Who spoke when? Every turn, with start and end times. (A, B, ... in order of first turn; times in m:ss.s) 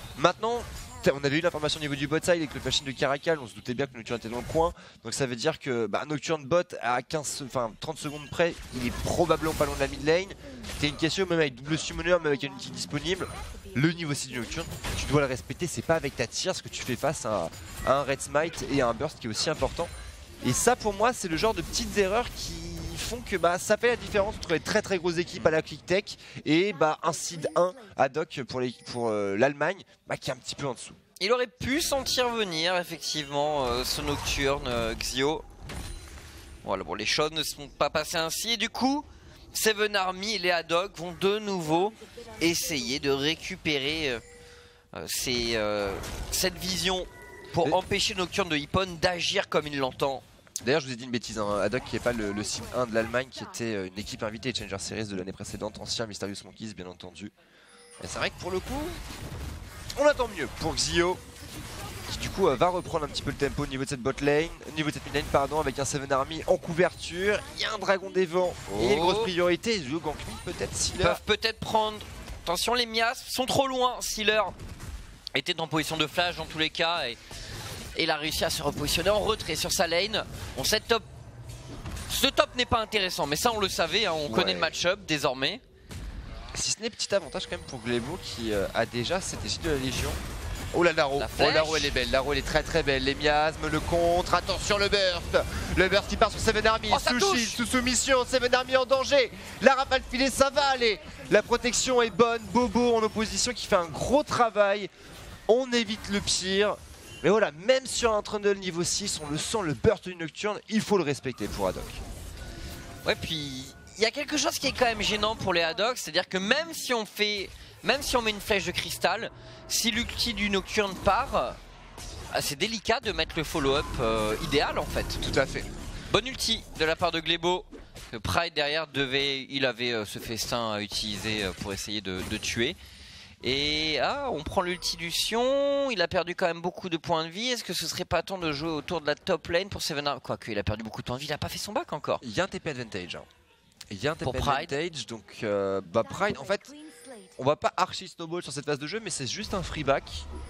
0:00.2-0:19.9 A
0:20.4-0:31.0 A
0:31.2-0:35.4 B
0:36.6-0:44.2 B
0:44.9-0:50.2 B
0:50.6-0:57.3 A
0:58.0-0:59.0 A
1:00.0-1:01.2 A
1:02.1-1:11.2 A
1:08.7-1:09.3 B
1:11.0-1:14.6 B
1:15.4-1:17.2 B
1:18.0-1:21.1 B
1:22.1-1:25.6 B
1:24.3-1:24.7 A
1:26.5-1:30.2 A
1:30.7-1:44.9 A
1:31.2-1:31.9 B
1:36.9-1:37.6 B
1:45.5-1:52.0 A
1:53.0-2:01.6 B
2:02.3-2:05.2 B
2:05.2-2:05.7 A
2:06.1-2:12.8 B
2:13.4-2:22.2 B
2:22.2-2:23.3 A
2:23.9-2:26.8 A
2:24.2-2:24.8 B
2:27.4-2:30.3 A